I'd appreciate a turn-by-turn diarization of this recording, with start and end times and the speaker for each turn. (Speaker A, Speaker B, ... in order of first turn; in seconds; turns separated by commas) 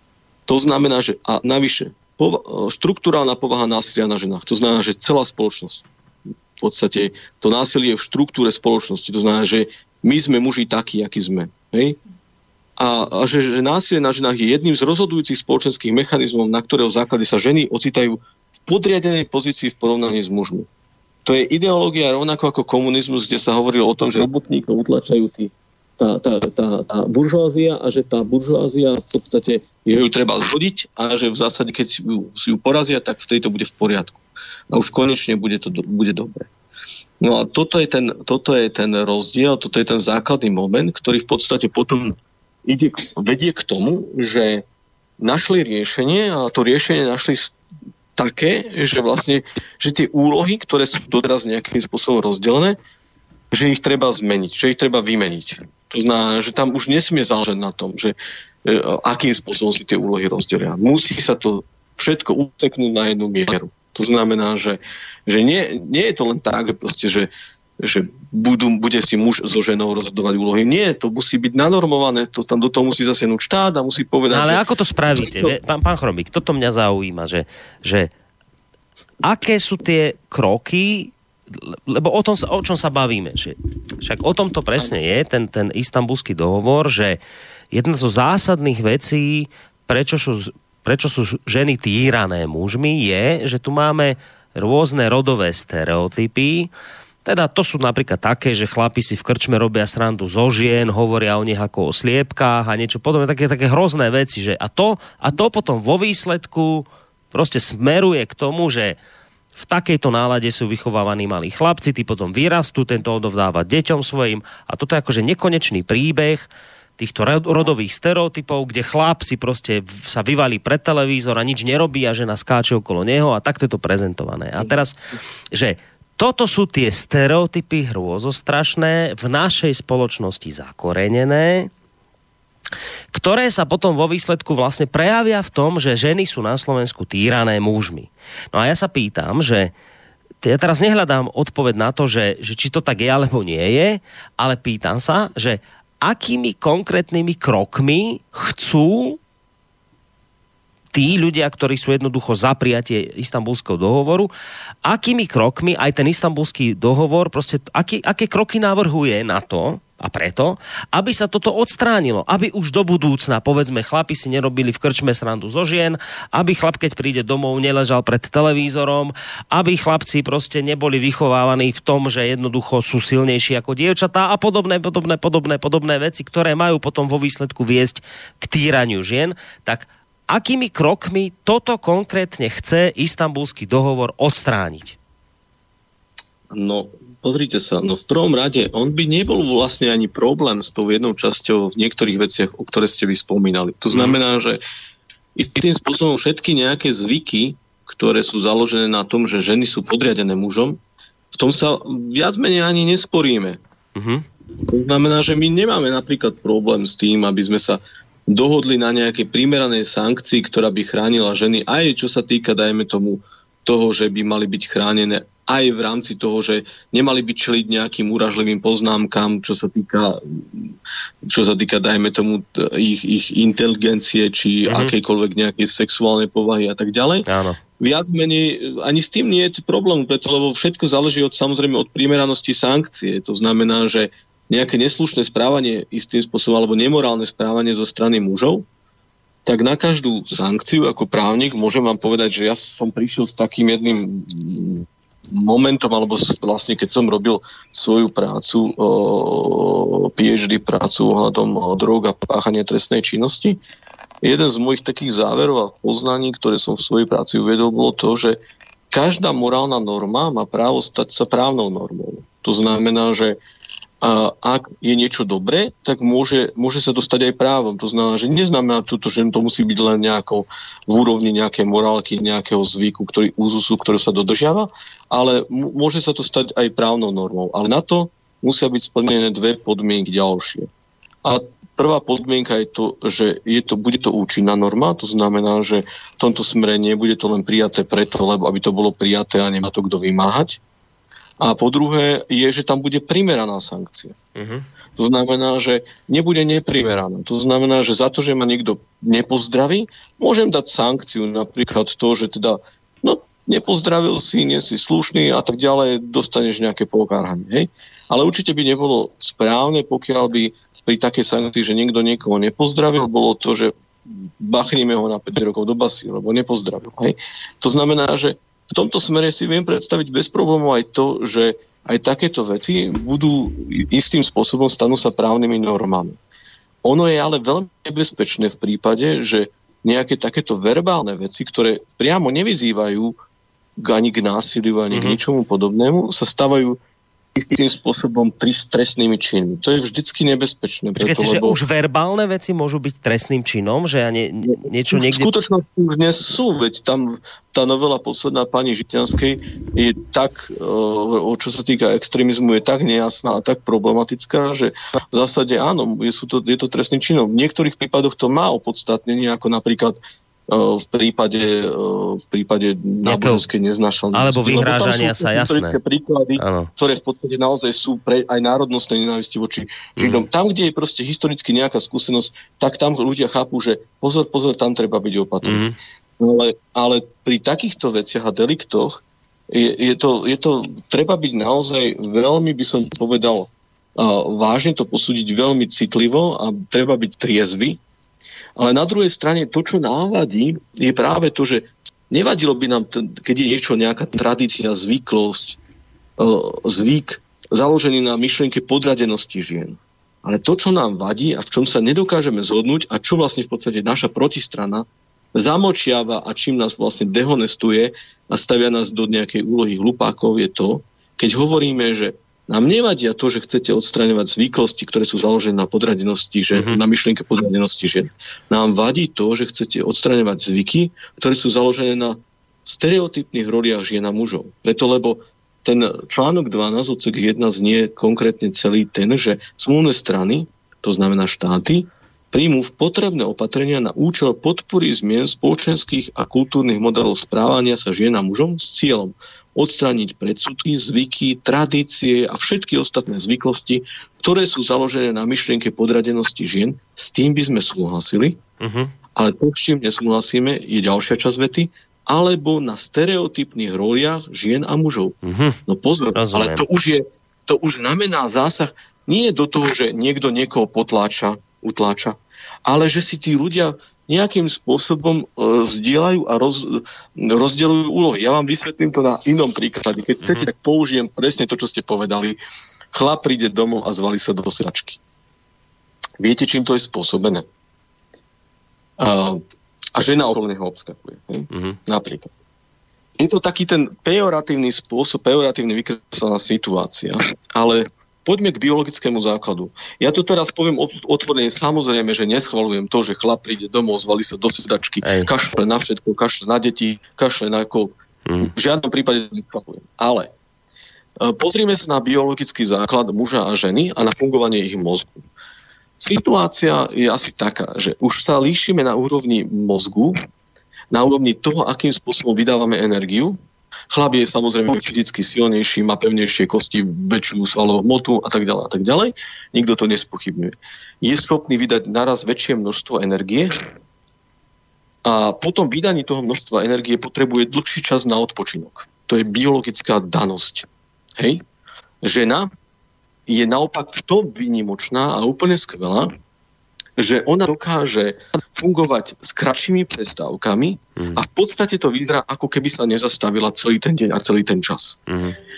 Speaker A: 0.5-5.9, Speaker A: 6.6-12.0, Speaker A: 12.8-20.7, Speaker A: 21.2-36.5, Speaker A: 37.2-44.6, Speaker A: 45.2-47.5, Speaker A: 48.1-52.8, Speaker A: 53.5-74.6, Speaker B: 74.3-78.1, Speaker A: 75.1-75.5, Speaker B: 79.2-87.2, Speaker B: 87.7-96.7, Speaker B: 97.2-109.0, Speaker B: 109.5-125.0, Speaker B: 125.5-131.7, Speaker B: 133.1-139.7, Speaker B: 140.4-149.2, Speaker B: 150.9-154.3, Speaker B: 154.8-184.9, Speaker A: 186.5-194.6, Speaker B: 193.9-194.2, Speaker A: 195.3-200.8, Speaker A: 201.3-203.6, Speaker B: 203.9-204.2, Speaker A: 204.7-220.7, Speaker A: 221.2-227.2, Speaker B: 224.7-224.9, Speaker B: 227.3-227.6, Speaker A: 227.8-238.6, Speaker A: 239.4-253.6, Speaker A: 254.2-258.4, Speaker A: 258.9-263.4, Speaker A: 264.0-280.7, Speaker A: 281.2-290.6, Speaker A: 291.4-294.1, Speaker B: 294.4-294.6, Speaker A: 294.9-326.2, Speaker A: 326.8-333.1, Speaker A: 333.8-336.8, Speaker B: 334.9-335.2, Speaker A: 337.3-341.6, Speaker B: 340.9-345.3, Speaker A: 344.5-360.0, Speaker A: 360.5-375.6, Speaker B: 363.0-363.4, Speaker B: 364.1-365.8, Speaker B: 366.4-366.7, Speaker B: 370.0-370.2, Speaker B: 375.4-375.8, Speaker A: 376.2-387.8, Speaker A: 388.6-395.6, Speaker A: 396.2-448.4, Speaker B: 416.5-416.8, Speaker B: 448.6-448.9, Speaker A: 449.1-472.4, Speaker B: 455.2-455.6, Speaker B: 456.1-456.6, Speaker B: 470.2-470.5, Speaker A: 472.9-475.0, Speaker A: 476.2-477.4, Speaker A: 479.0-479.4, Speaker A: 479.9-482.3, Speaker B: 481.5-481.8, Speaker A: 483.2-497.9, Speaker B: 495.0-495.3, Speaker B: 498.2-498.5, Speaker A: 498.4-500.3, Speaker A: 501.2-505.2, Speaker A: 506.0-510.2, Speaker A: 510.9-513.4, Speaker A: 513.9-523.5, Speaker A: 525.0-531.4, Speaker A: 532.0-532.5, Speaker A: 533.3-536.1, Speaker A: 537.0-545.1, Speaker B: 545.1-545.3